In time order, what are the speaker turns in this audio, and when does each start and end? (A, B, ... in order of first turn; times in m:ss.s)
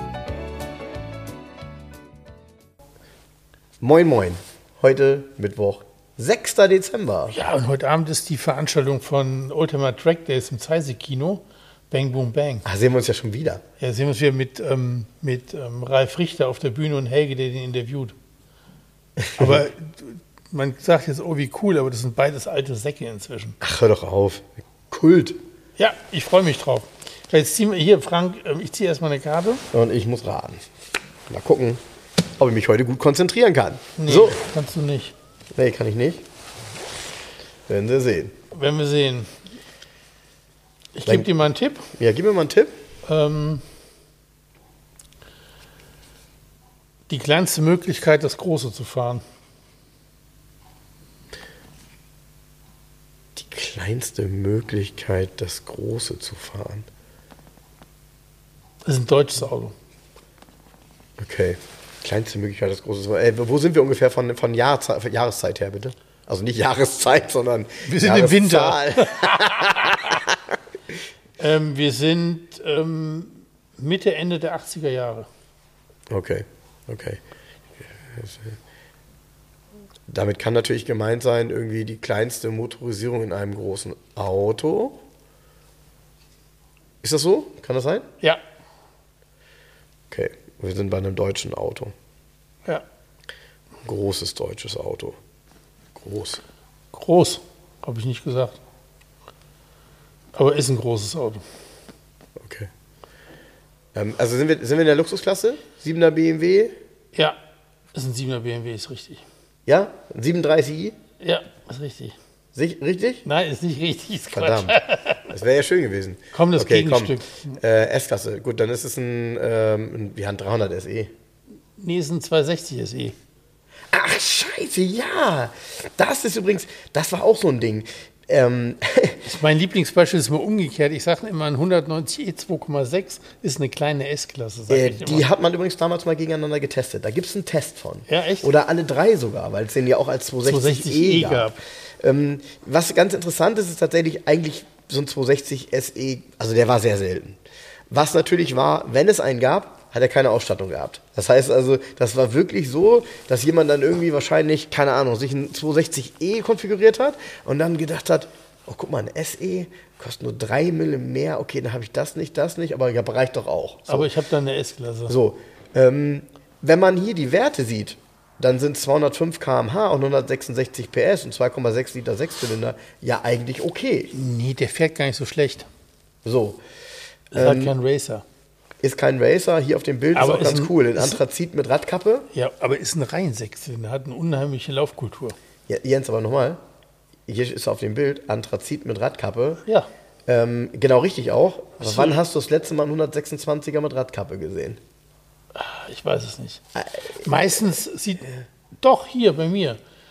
0:03.8-0:07.3 A
0:07.3-0:12.6 B
0:12.6-0:13.6 A
0:13.8-0:18.1 B
0:19.2-0:19.6 A
0:19.4-0:23.6 B
0:23.6-0:25.4 A
0:25.8-0:29.6 B
0:29.7-0:30.6 A
0:31.3-0:31.8 A
0:32.4-0:34.4 A
0:34.0-0:35.1 B
0:35.5-0:36.2 A
0:37.7-0:38.3 A
0:38.5-0:39.3 B
0:40.9-0:41.8 B
0:41.0-0:41.3 A
0:42.0-0:42.7 A
0:43.1-0:43.6 B
0:47.1-0:49.2 B
0:53.4-0:56.9 A
0:58.8-0:59.7 B
1:01.2-1:10.3 A
1:07.8-1:10.2 B
1:11.4-1:15.3 B
1:16.1-1:17.2 A
1:17.8-1:18.6 A
1:20.1-1:25.0 A
1:27.0-1:28.0 A
1:30.1-1:31.9 A
1:33.8-1:35.2 A
1:35.9-1:36.4 A
1:36.9-1:38.6 B
1:40.3-1:41.4 B
1:42.4-1:42.7 A
1:43.9-1:46.7 A
1:47.9-1:49.2 B
1:49.6-1:50.9 A
1:51.2-1:52.1 B
1:52.5-1:53.2 A
1:53.2-1:55.3 B
1:54.3-2:01.1 A
1:56.3-1:57.6 B
2:01.8-2:03.1 B
2:03.9-2:09.2 A
2:09.2-2:15.3 B
2:14.7-2:27.4 A
2:18.1-2:18.6 B
2:20.4-2:21.6 B
2:27.9-2:44.1 A
2:43.9-2:45.1 B
2:45.1-2:54.1 A
2:54.1-2:55.7 B
2:56.2-2:56.6 A
2:57.3-2:58.2 B
2:57.4-2:57.7 A
2:58.8-3:02.3 A
3:00.1-3:01.2 B
3:02.3-3:05.4 B
3:05.7-3:06.6 A
3:07.3-3:09.6 A
3:10.3-3:14.8 A
3:11.8-3:12.2 B
3:15.5-3:16.6 B
3:17.2-3:18.3 B
3:18.8-3:19.8 B